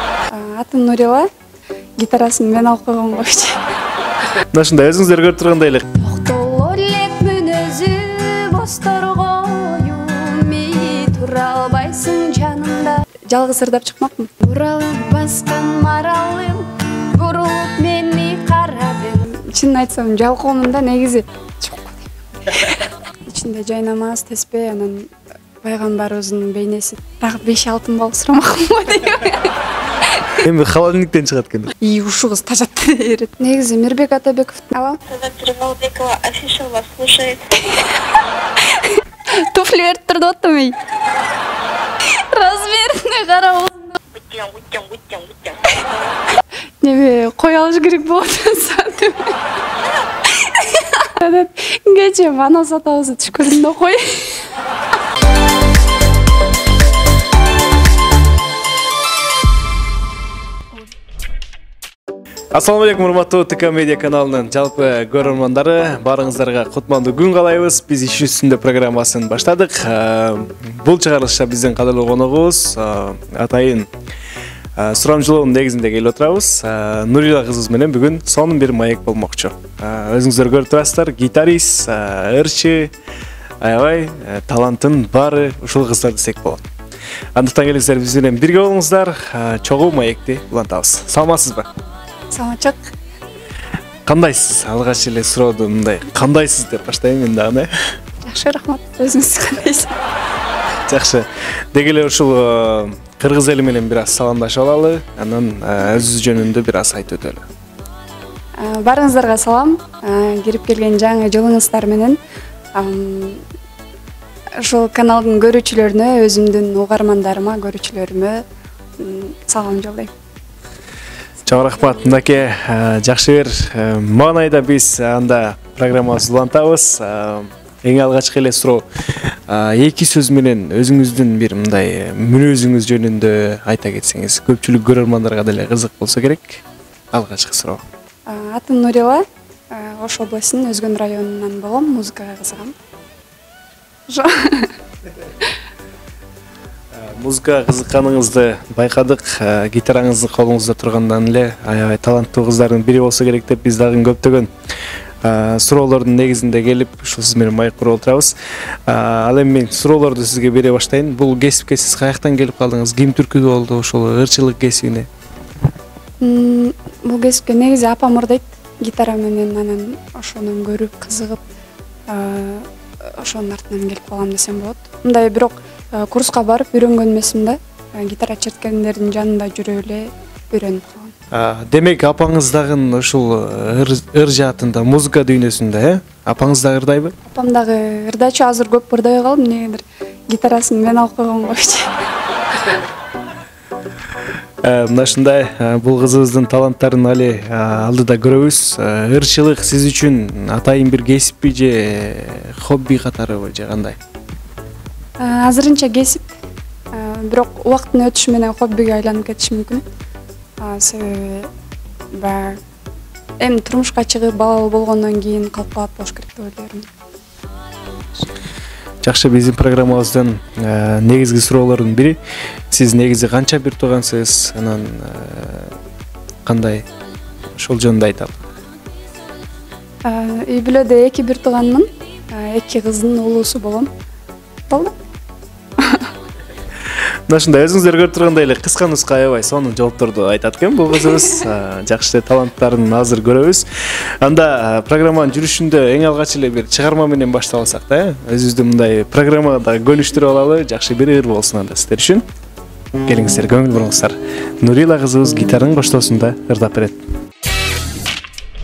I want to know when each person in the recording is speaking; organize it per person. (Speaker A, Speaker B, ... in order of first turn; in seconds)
Speaker A: 0.3-1.3, 2.0-3.6, 6.0-25.1, 25.6-30.4, 31.8-35.0, 37.6-38.0, 38.6-40.8, 42.0-44.0, 46.8-49.4, 50.5-54.5, 92.3-92.8, 98.2-100.0, 108.6-112.2, 112.8-113.5, 114.6-118.4, 119.0-120.1, 138.3-142.8, 144.1-144.8, 166.2-171.4, 172.1-181.1, 187.2-191.9, 205.2-206.4, 206.9-209.8, 210.6-211.5, 212.1-212.6, 213.4-216.9, 230.1-233.9, 235.8-236.1
Speaker B: 4.5-5.9, 30.4-31.7, 62.5-73.9, 74.8-82.9, 83.6-86.6, 87.3-91.7, 94.1-97.7, 100.9-107.4, 121.5-137.8, 146.9-154.5, 155.2-158.3, 158.9-165.1, 181.3-187.1, 194.6-204.0, 219.0-222.2, 222.7-225.8, 226.5-226.9, 227.6-228.4, 237.3-252.2, 253.0-257.0
Speaker C: 35.1-37.5, 44.1-46.3